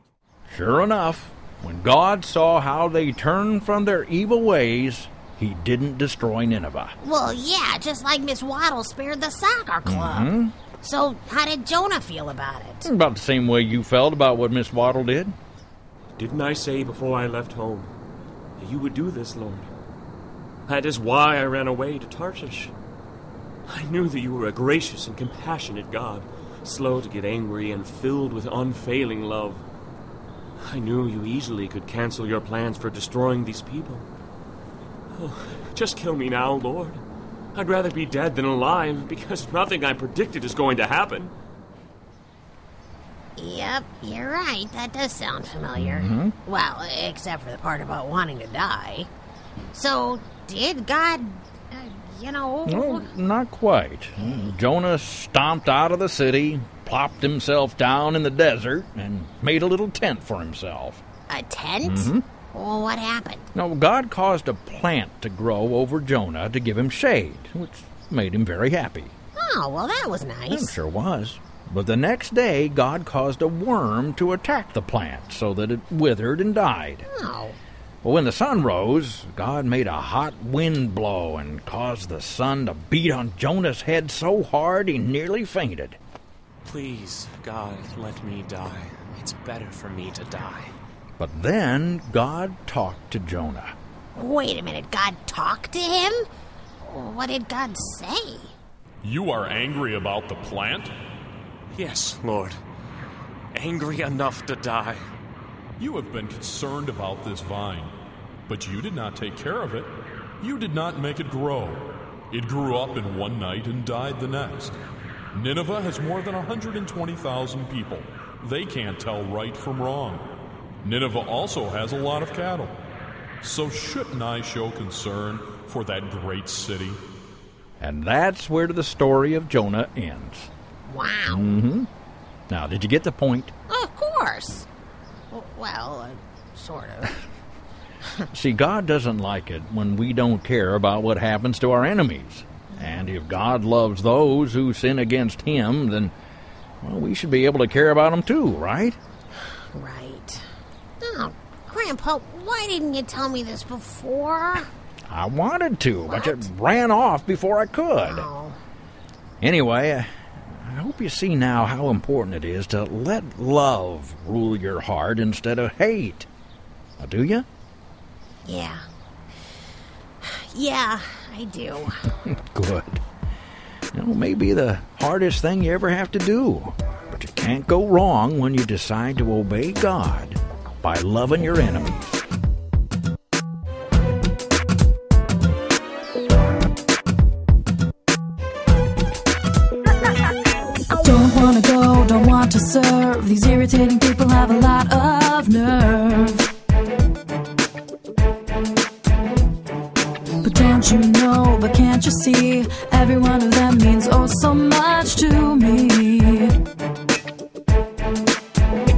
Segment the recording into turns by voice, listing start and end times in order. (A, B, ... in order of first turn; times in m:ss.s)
0:00.5-0:07.0 A
0:07.0-0:12.9 B
0:09.8-0:10.5 A
0:12.8-0:15.4 A
0:16.2-0:17.9 C
0:18.6-0:19.7 C
0:20.7-0:22.7 C
0:23.7-0:29.6 C
0:30.6-0:34.1 C
0:35.1-0:37.0 C
0:37.6-0:41.3 C
0:43.4-0:49.1 B
0:45.8-0:46.4 A
0:49.7-0:53.1 B
0:52.7-1:01.0 A
0:54.2-0:54.5 B
1:01.3-1:03.5 B
1:01.8-1:02.2 A
1:03.6-1:09.2 A
1:09.4-1:10.8 B
1:10.5-1:17.1 A
1:17.1-1:17.6 B
1:18.0-1:26.0 A
1:26.6-1:30.7 D
1:31.2-1:33.8 A
1:34.2-1:36.2 B
1:36.8-1:38.5 B
1:39.0-1:40.9 E
1:41.7-1:42.6 D
1:43.5-1:45.0 D
1:45.8-1:48.0 E
1:48.5-1:54.8 E
1:55.3-2:02.8 E
2:03.4-2:07.0 E
2:07.8-2:10.5 A
2:10.9-2:11.6 B
2:11.3-2:11.9 A
2:12.5-2:13.5 A
2:13.7-2:14.7 B
2:15.3-2:17.2 B
2:18.3-2:26.1 A
2:22.8-2:23.0 B
2:26.8-2:29.0 A
2:29.7-2:30.4 B
2:31.0-2:34.7 B
2:35.1-2:38.3 A
2:36.1-2:36.5 B
2:38.0-2:38.6 B
2:39.4-2:46.3 A
2:47.0-2:47.5 A
2:48.4-2:48.8 B
2:50.2-2:52.0 B
2:52.3-2:53.0 A
2:53.9-3:02.2 A
3:11.0-3:16.4 F
3:20.4-3:26.6 F